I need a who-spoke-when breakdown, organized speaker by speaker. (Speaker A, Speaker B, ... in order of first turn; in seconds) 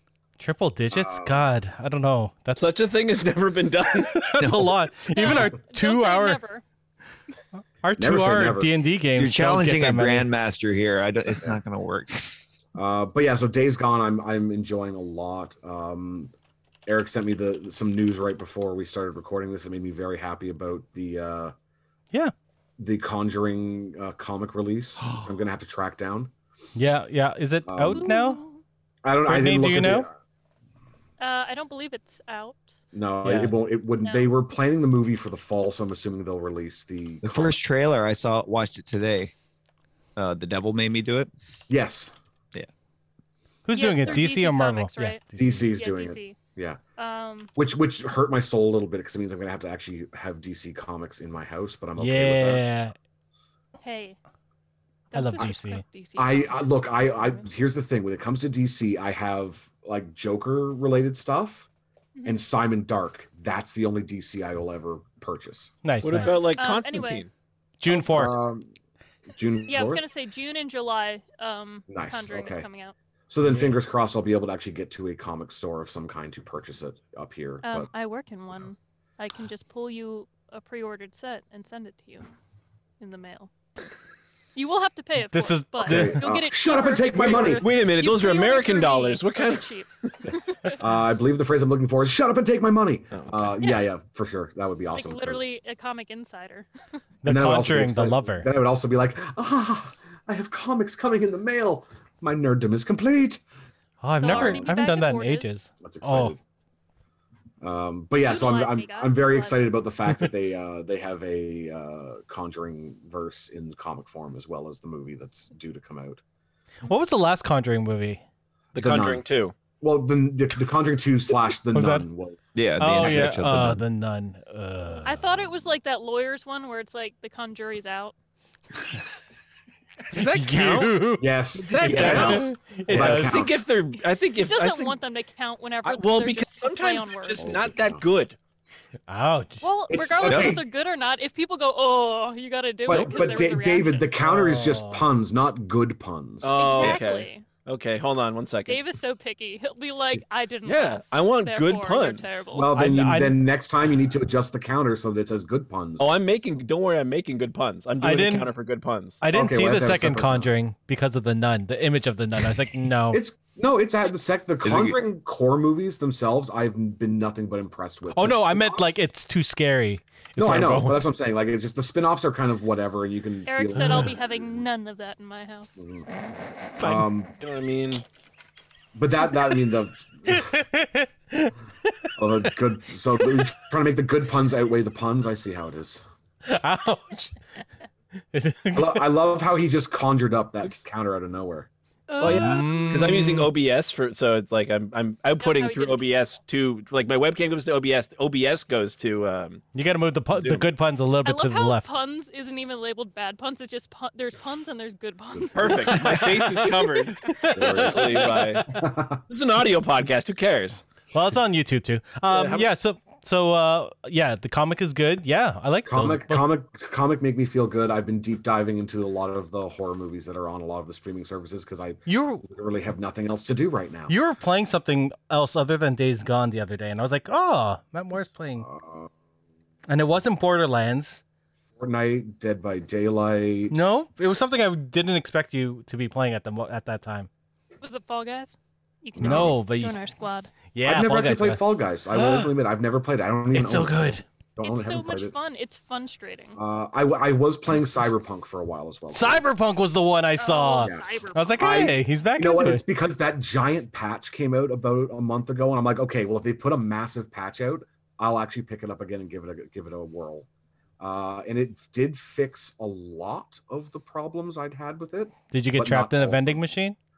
Speaker A: 0.4-2.7, 4.0-6.4, 7.6-10.3, 26.7-28.4, 29.3-30.1, 33.2-33.5, 43.6-45.7, 52.0-52.9, 55.1-55.8, 65.8-66.3, 67.8-68.3, 73.4-73.7, 85.3-86.2, 97.2-98.5, 104.0-106.3, 116.9-118.2, 121.7-122.0, 122.8-125.1, 130.1-131.3, 131.8-133.4, 139.1-139.7, 144.2-145.1, 152.7-153.4, 158.0-158.5, 159.2-163.2, 168.1-171.1, 173.7-174.1, 180.3-182.1, 186.4-187.3, 188.3-189.1, 192.2-193.5, 199.7-201.9, 207.2-208.3, 211.1-216.4, 222.1-222.4, 224.1-228.7, 229.9-231.2, 233.7-237.3, 239.2-240.0, 240.7-242.5, 243.5-244.2, 249.1-252.8, 265.5-266.9
Speaker B: 0.9-1.5, 8.0-8.7, 12.7-16.3, 16.9-21.5, 22.8-26.3, 27.7-28.1, 29.0-30.1, 32.9-37.6, 41.7-42.1, 45.4-46.8, 47.5-52.6, 56.2-61.7, 62.2-65.7, 67.9-68.7, 69.3-70.1, 71.9-72.7, 73.3-77.9, 85.8-87.7, 90.8-95.5, 97.2-103.4, 104.3-104.7, 105.8-106.4, 107.6-116.2, 118.8-119.2, 119.8-122.4, 123.0-123.3, 131.2-133.7, 137.4-138.0, 139.9-140.7, 142.9-147.0, 152.5-156.1, 159.3-160.5, 163.1-168.9, 170.4-174.6, 175.8-176.1, 176.8-177.3, 178.9-180.5, 182.2-186.0, 188.7-191.7, 207.5-209.2, 215.9-224.1, 228.6-229.1, 231.8-233.8, 239.2-239.6, 240.8-245.4, 246.6-249.4, 251.6-260.5, 261.0-266.6
Speaker C: 2.5-4.2, 66.0-67.3, 87.2-90.3, 93.1-93.5, 118.7-119.5, 130.1-131.0, 131.6-135.0, 135.8-138.3, 146.4-148.8, 150.7-152.4, 156.0-159.2, 176.8-178.0, 192.2-199.6, 200.3-200.7, 205.5-208.7, 209.3-210.8, 212.3-212.7
Speaker D: 4.4-4.7, 9.2-12.3, 37.2-39.3, 40.1-41.3, 122.5-123.8, 131.8-133.3, 140.2-140.6, 164.6-165.0
Speaker E: 5.1-6.6, 27.9-28.6, 31.2-32.6, 34.0-34.3, 43.7-46.4, 47.0-47.5, 53.8-54.2, 55.1-57.4, 62.1-62.4, 66.1-67.2, 69.7-72.9, 77.6-82.3, 83.0-83.5, 84.5-90.8, 94.9-96.7, 104.2-105.5, 108.2-109.6, 125.0-128.1, 134.4-137.6, 139.6-144.1, 146.5-147.5, 148.7-152.7, 173.4-175.8, 192.1-193.1, 195.4-196.0, 201.2-206.3, 237.8-240.5, 244.6-246.6, 250.4-251.9